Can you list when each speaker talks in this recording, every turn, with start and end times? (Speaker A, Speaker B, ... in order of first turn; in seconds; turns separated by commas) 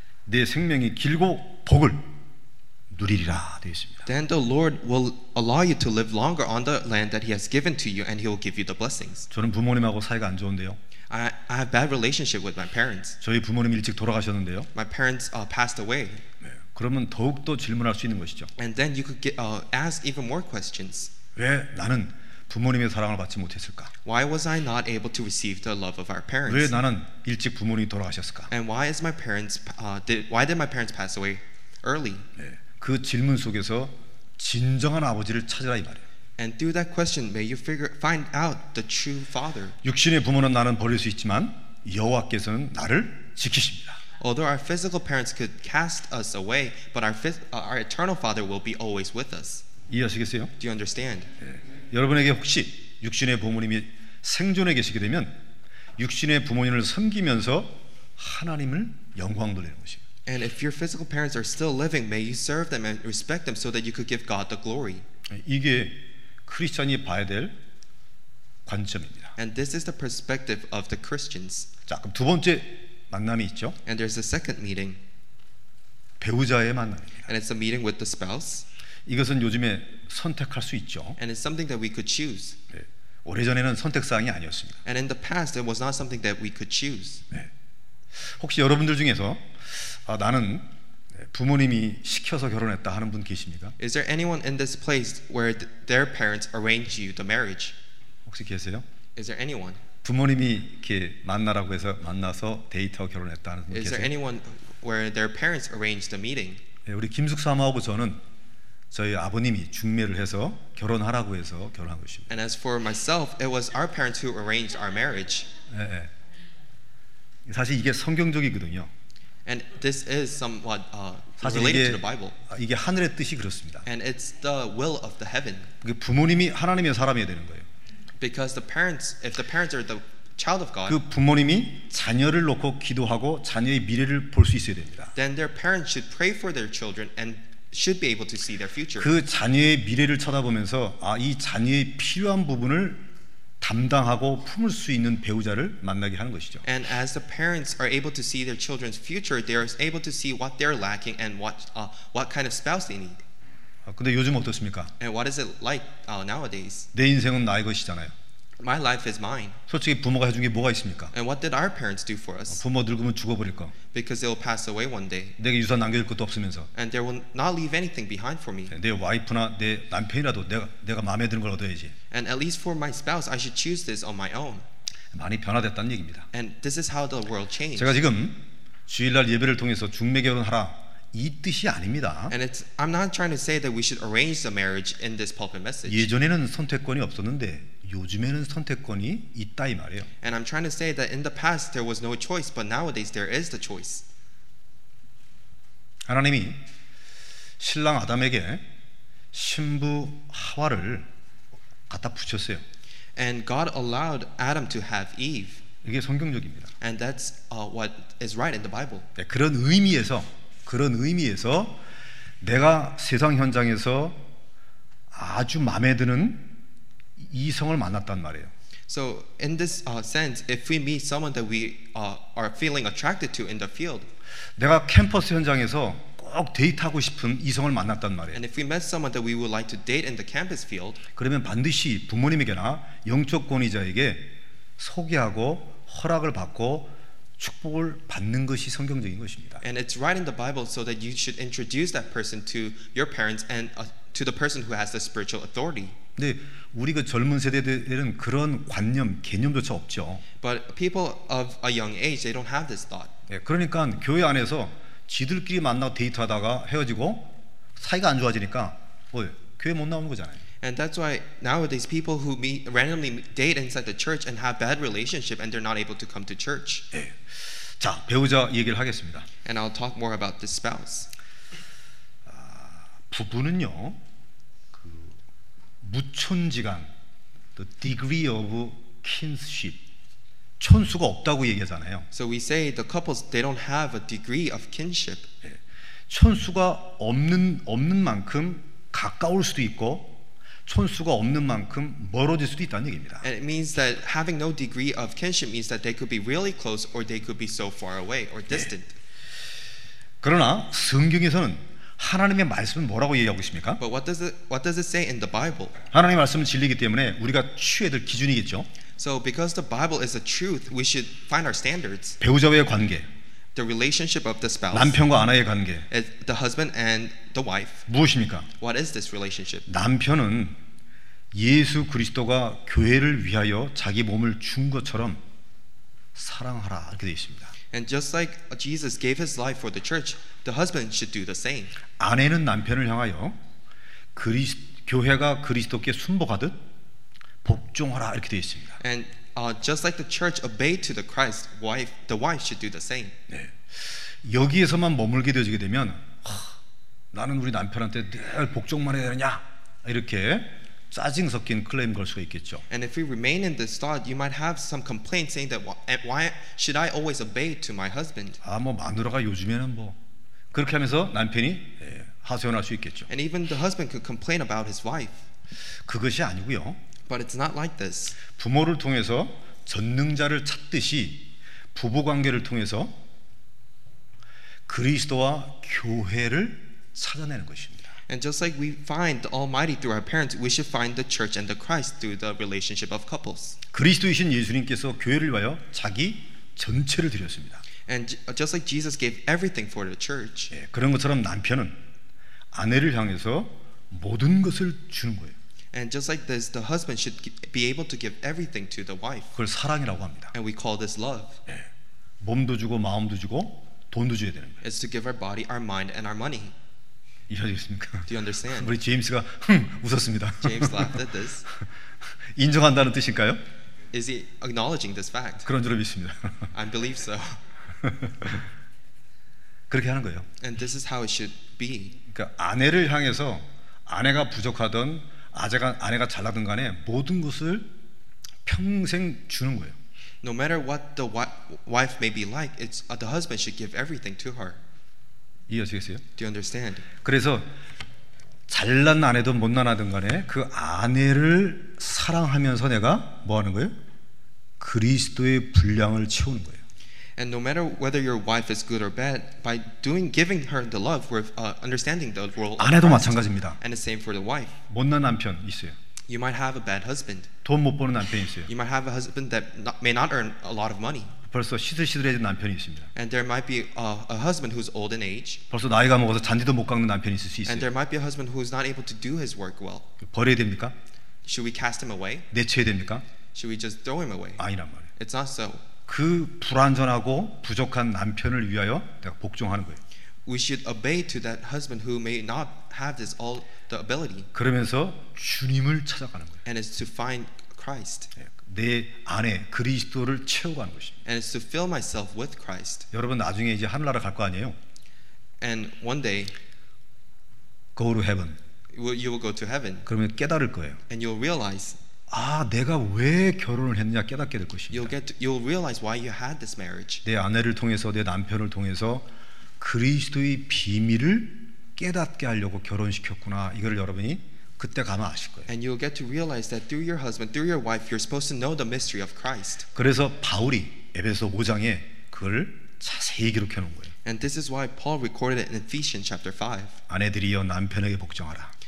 Speaker A: 0.2-2.1, Speaker A: 2.9-4.1, Speaker B: 4.0-9.3, Speaker A: 9.3-10.8, Speaker B: 11.1-13.2, Speaker A: 13.2-14.7, Speaker B: 14.7-16.2, Speaker A: 16.4-18.5, Speaker B: 18.6-21.1, Speaker A: 21.4-23.9, Speaker B: 24.0-26.7, Speaker A: 26.5-28.5, Speaker B: 28.5-32.3, Speaker A: 32.4-36.0, Speaker B: 36.4-39.8, Speaker A: 39.8-44.0, Speaker B: 44.2-49.6, Speaker A: 49.9-50.5, Speaker B: 50.6-51.3, Speaker A: 51.4-55.3, Speaker A: 56.0-60.0, Speaker B: 60.3-65.0, Speaker A: 65.3-67.5, Speaker A: 68.7-69.3, Speaker B: 69.4-71.7, Speaker A: 71.9-73.8, Speaker B: 73.8-75.0, Speaker A: 76.2-77.3, Speaker B: 77.3-78.7, Speaker A: 79.0-81.2, Speaker B: 81.2-82.6, Speaker A: 82.7-84.8, Speaker B: 84.8-87.2, Speaker A: 88.2-93.8, Speaker B: 93.8-97.8, Speaker A: 98.2-98.8, Speaker B: 99.2-99.8, Speaker A: 100.0-104.1, Speaker B: 103.7-106.6, Speaker A: 106.8-108.2, Speaker A: 108.9-112.3, Speaker B: 112.3-115.5, Speaker A: 115.7-116.1, Speaker A: 117.5-118.9, Speaker B: 119.5-122.4, Speaker A: 121.4-123.9, Speaker B: 123.8-125.7, Speaker A: 125.8-127.7, Speaker B: 128.2-131.0, Speaker A: 130.9-135.1, Speaker B: 135.1-139.1, Speaker A: 139.0-143.0, Speaker A: 143.6-146.6, Speaker B: 146.6-153.2, Speaker A: 153.8-154.9, Speaker B: 155.0-156.9, Speaker A: 156.9-158.1, Speaker B: 158.6-159.6, Speaker A: 159.7-161.1, Speaker B: 161.1-162.6, Speaker A: 162.5-163.7, Speaker B: 163.9-165.3, Speaker A: 165.4-166.7, Speaker B: 166.7-168.7, Speaker A: 168.7-171.9, Speaker B: 172.1-174.6, Speaker A: 175.1-176.3, Speaker B: 176.3-178.0, Speaker A: 177.8-182.3, Speaker B: 182.3-186.1, Speaker A: 185.9-190.1, Speaker B: 190.2-194.0, Speaker A: 196.1-196.6, Speaker A: 197.6-198.7, Speaker A: 199.3-201.1, Speaker A: 201.9-202.6, Speaker B: 203.2-205.6, Speaker A: 205.8-206.7, Speaker B: 206.8-209.1, Speaker A: 209.2-211.8, Speaker A: 212.4-214.2, Speaker A: 215.1-216.6, Speaker A: 217.2-218.5, Speaker B: 218.9-224.1, Speaker A: 224.6-228.4, Speaker B: 228.3-231.0, Speaker A: 231.2-239.6, Speaker B: 239.6-245.9, Speaker A: 246.2-250.2, Speaker B: 250.4-253.1, Speaker A: 253.3-260.4, Speaker B: 260.6-266.9, Speaker A: 266.9-269.3, Speaker B: 269.4-271.1, Speaker A: 272.2-274.0, Speaker A: 274.7-275.2, Speaker A: 275.8-276.9, Speaker A: 277.6-279.8, Speaker A: 280.6-282.1, Speaker B: 282.1-285.3, Speaker A: 286.1-293.2, Speaker B: 293.2-298.9, Speaker A: 300.2-303.8, Speaker B: 303.8-305.8, Speaker A: 305.9-308.7, Speaker B: 309.0-312.2, Speaker A: 312.2-313.1, Speaker B: 313.5-315.0, Speaker A: 314.7-315.9, Speaker B: 315.9-317.8, Speaker A: 317.9-318.5, Speaker B: 318.6-319.7, Speaker A: 319.7-320.6, Speaker A: 321.3-325.2, Speaker A: 326.1-327.5, Speaker B: 327.7-331.8, Speaker A: 332.0-333.4, Speaker A: 334.1-336.6, Speaker A: 337.4-338.8, Speaker B: 338.8-343.1, Speaker A: 343.3-346.6, Speaker A: 347.1-352.6, Speaker B: 352.7-358.4, Speaker A: 358.4-360.0, Speaker A: 360.5-363.1, Speaker B: 363.1-365.2, Speaker A: 365.8-366.8, Speaker B: 367.1-368.2, Speaker A: 368.3-372.9, Speaker A: 374.7-377.9, Speaker B: 378.1-383.6, Speaker A: 383.7-387.6, Speaker B: 387.9-390.5, Speaker A: 390.5-391.8, Speaker A: 392.5-395.4, Speaker B: 395.7-399.3, Speaker A: 399.3-400.3, Speaker B: 400.3-401.4, Speaker A: 402.2-404.6, Speaker B: 404.6-406.5, Speaker A: 407.3-411.0, Speaker B: 408.1-408.7, Speaker B: 410.4-411.5, Speaker A: 412.3-413.4, Speaker B: 413.9-415.5, Speaker A: 415.4-416.5, Speaker B: 416.5-417.4, Speaker A: 417.8-418.4, Speaker A: 419.7-420.3, Speaker B: 420.4-422.0, Speaker A: 422.1-427.7, Speaker A: 428.4-429.8, Speaker B: 430.2-434.6, Speaker A: 435.5-436.0, Speaker B: 436.2-436.9, Speaker A: 437.0-437.5, Speaker A: 438.5-443.7, Speaker A: 444.6-446.6, Speaker B: 447.2-454.6, Speaker A: 452.6-453.6, Speaker A: 454.7-455.8, Speaker B: 456.1-457.3, Speaker A: 457.4-458.5, Speaker B: 458.5-461.1, Speaker A: 461.3-462.9, Speaker B: 462.9-465.4, Speaker A: 465.5-467.7, Speaker B: 467.4-469.9, Speaker A: 470.0-470.7, Speaker B: 471.2-472.3, Speaker A: 472.3-473.0, Speaker B: 473.3-474.4, Speaker A: 474.4-474.9, Speaker B: 474.9-475.6, Speaker A: 475.9-479.8, Speaker B: 480.2-484.3, Speaker A: 484.3-486.4, Speaker B: 486.4-488.1, Speaker A: 488.2-491.0, Speaker B: 491.1-492.9, Speaker A: 492.9-494.6, Speaker B: 495.4-496.3, Speaker A: 497.8-498.4, Speaker B: 498.7-499.9, Speaker A: 499.9-500.8, Speaker B: 500.9-501.8, Speaker A: 502.1-504.9, Speaker B: 504.7-507.0, Speaker A: 507.0-509.1, Speaker A: 509.6-515.5, Speaker B: 515.5-519.6, Speaker A: 519.7-523.9, Speaker B: 524.0-526.8, Speaker A: 526.9-528.5